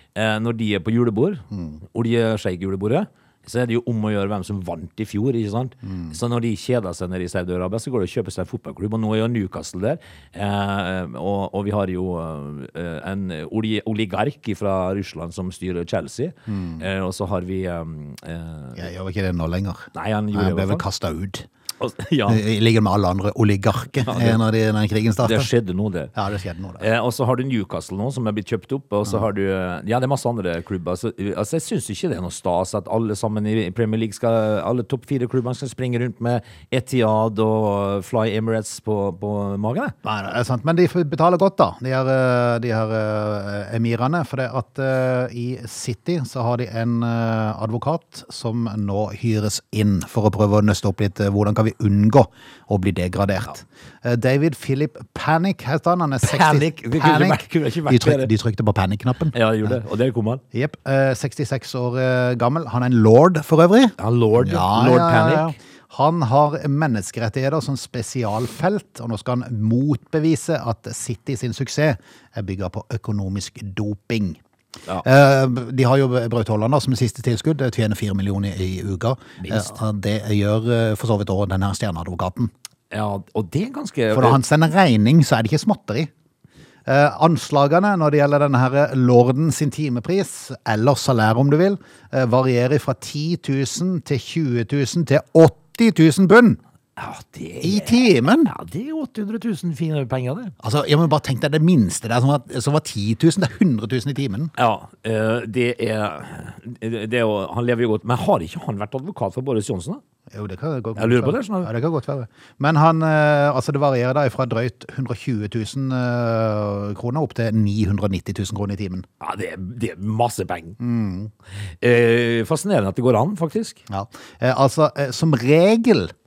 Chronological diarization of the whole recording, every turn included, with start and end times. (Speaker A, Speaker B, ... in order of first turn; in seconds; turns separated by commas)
Speaker A: 0.1-18.9, Speaker B: 1.5-1.8, Speaker B: 5.9-6.1, Speaker B: 16.5-16.8, Speaker B: 18.8-21.5, Speaker A: 19.9-20.8, Speaker A: 21.8-22.4, Speaker B: 22.3-25.5, Speaker A: 24.1-24.4, Speaker A: 25.2-26.1, Speaker B: 26.1-26.8, Speaker A: 26.8-39.9, Speaker B: 40.0-59.8, Speaker A: 56.2-58.3, Speaker A: 59.3-60.4, Speaker B: 60.5-74.4, Speaker A: 64.0-65.5, Speaker B: 75.0-82.5, Speaker A: 79.4-79.7, Speaker A: 82.9-84.4, Speaker B: 84.1-86.1, Speaker B: 86.9-96.6, Speaker A: 97.0-100.5, Speaker B: 97.6-98.5, Speaker B: 100.6-104.5, Speaker A: 104.6-110.0, Speaker B: 110.3-119.0, Speaker A: 111.0-111.7, Speaker A: 119.2-120.8, Speaker B: 120.8-121.3, Speaker A: 121.8-123.8, Speaker B: 123.9-126.1